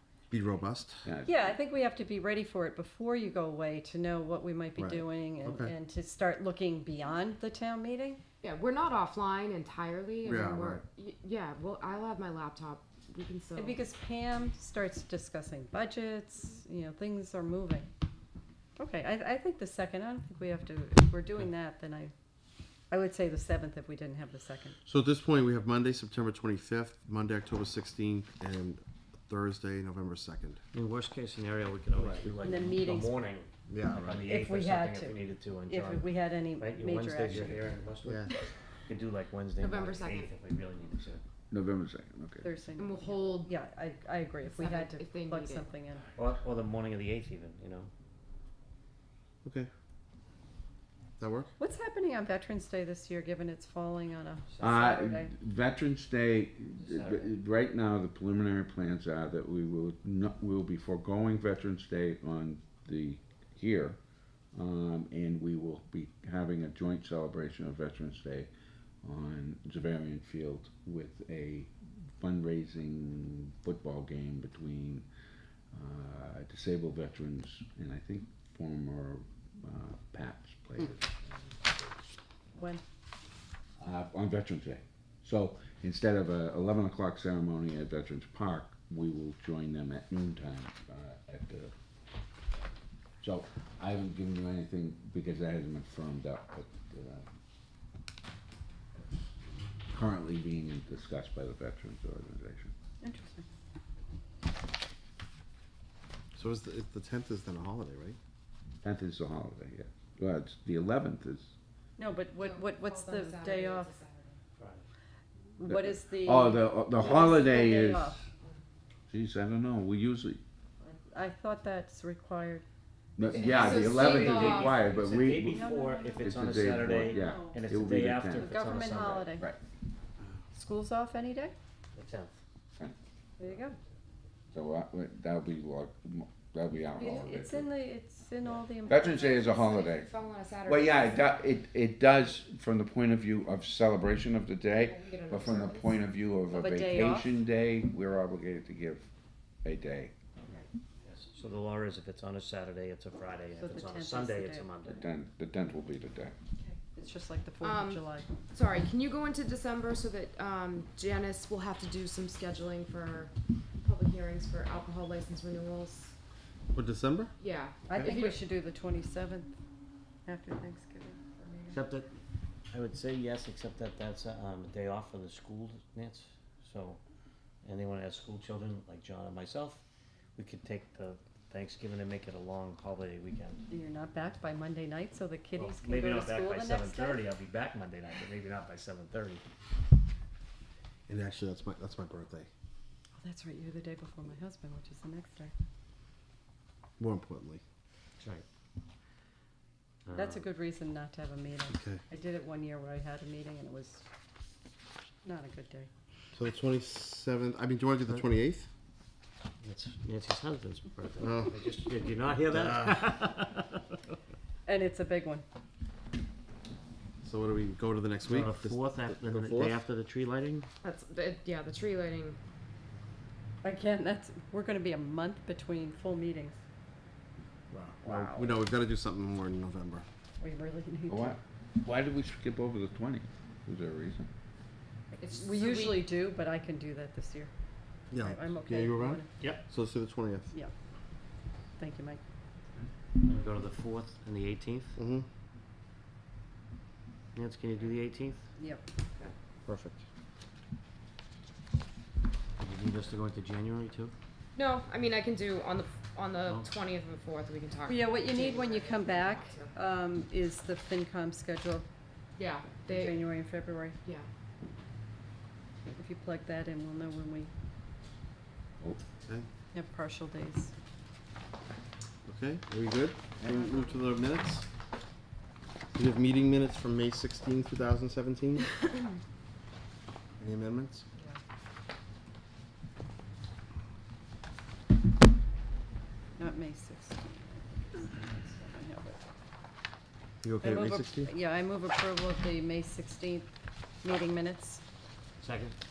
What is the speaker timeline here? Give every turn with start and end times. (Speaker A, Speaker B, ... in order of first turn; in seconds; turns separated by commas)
Speaker A: 0.3-1.1, Speaker B: 1.0-1.3, Speaker C: 1.2-8.2, Speaker A: 4.8-5.7, Speaker D: 8.4-13.8, Speaker A: 10.2-10.8, Speaker C: 13.6-17.9, Speaker C: 18.8-22.1, Speaker C: 22.9-24.8, Speaker A: 24.8-30.6, Speaker E: 30.7-38.4, Speaker A: 31.9-32.3, Speaker C: 32.4-33.1, Speaker A: 33.7-34.2, Speaker C: 34.2-35.1, Speaker C: 35.7-37.6, Speaker A: 38.0-38.3, Speaker E: 38.9-41.2, Speaker D: 39.6-40.3, Speaker B: 41.5-42.5, Speaker C: 42.4-46.0, Speaker D: 42.8-43.5, Speaker D: 44.5-45.6, Speaker E: 46.1-47.9, Speaker A: 49.4-49.7, Speaker A: 51.2-51.5, Speaker C: 51.6-55.3, Speaker B: 54.6-64.0, Speaker E: 56.8-57.3, Speaker B: 64.5-68.5, Speaker B: 69.0-75.0, Speaker B: 75.7-82.0, Speaker C: 82.5-82.8, Speaker B: 83.8-91.7, Speaker B: 93.2-97.2, Speaker B: 99.9-102.7, Speaker C: 103.0-103.4, Speaker A: 106.3-108.2, Speaker B: 108.8-111.5, Speaker C: 112.0-113.9, Speaker D: 112.4-114.4, Speaker E: 114.6-114.8, Speaker C: 115.6-118.2, Speaker B: 115.7-118.2, Speaker B: 119.1-120.4, Speaker C: 120.8-122.6, Speaker B: 123.2-128.5, Speaker D: 123.3-124.8, Speaker E: 123.6-129.3, Speaker C: 125.5-127.6, Speaker C: 128.3-129.5, Speaker C: 130.5-131.5, Speaker E: 131.9-132.4, Speaker C: 133.4-133.8, Speaker B: 134.5-137.7, Speaker C: 137.0-139.3, Speaker B: 138.9-140.1, Speaker D: 139.2-141.4, Speaker B: 140.7-149.1, Speaker D: 144.8-145.9, Speaker C: 146.5-147.4, Speaker B: 149.6-150.1, Speaker E: 151.0-155.0, Speaker C: 153.6-154.7, Speaker B: 154.8-156.3, Speaker C: 156.9-158.3, Speaker D: 157.6-163.3, Speaker D: 163.8-166.1, Speaker A: 166.7-167.3, Speaker D: 167.4-168.4, Speaker C: 167.9-169.5, Speaker C: 170.2-171.8, Speaker E: 171.7-172.1, Speaker E: 172.7-177.0, Speaker E: 177.6-179.8, Speaker E: 180.3-183.6, Speaker C: 183.7-187.2, Speaker E: 185.6-189.4, Speaker A: 191.1-192.5, Speaker C: 193.2-195.5, Speaker A: 197.0-197.6, Speaker E: 198.2-198.4, Speaker E: 200.0-200.4, Speaker C: 200.1-204.0, Speaker A: 201.7-202.0, Speaker C: 205.2-205.9, Speaker A: 206.3-208.7, Speaker E: 209.6-213.8, Speaker A: 211.2-211.6, Speaker C: 214.7-215.4, Speaker A: 217.2-219.8, Speaker E: 218.2-220.7, Speaker D: 220.8-222.4, Speaker C: 223.6-226.6, Speaker A: 228.0-230.0, Speaker C: 228.0-228.6, Speaker C: 230.4-231.4, Speaker B: 231.1-234.3, Speaker D: 235.1-236.1, Speaker C: 235.3-237.5, Speaker A: 238.1-240.5, Speaker C: 238.2-239.2, Speaker C: 241.8-242.2, Speaker E: 243.2-245.0, Speaker A: 244.9-245.3, Speaker E: 247.3-248.4, Speaker C: 248.6-248.8, Speaker A: 249.7-250.0, Speaker E: 252.6-254.1, Speaker D: 254.6-259.7, Speaker C: 257.9-261.8, Speaker D: 262.4-263.2, Speaker C: 262.9-264.0, Speaker C: 266.0-267.5, Speaker C: 269.7-270.7, Speaker A: 272.2-274.6, Speaker C: 273.4-274.0, Speaker A: 275.9-278.7, Speaker A: 280.4-281.1, Speaker C: 286.4-289.2, Speaker A: 290.4-291.3, Speaker C: 290.6-293.5, Speaker C: 294.0-294.8, Speaker E: 295.4-295.8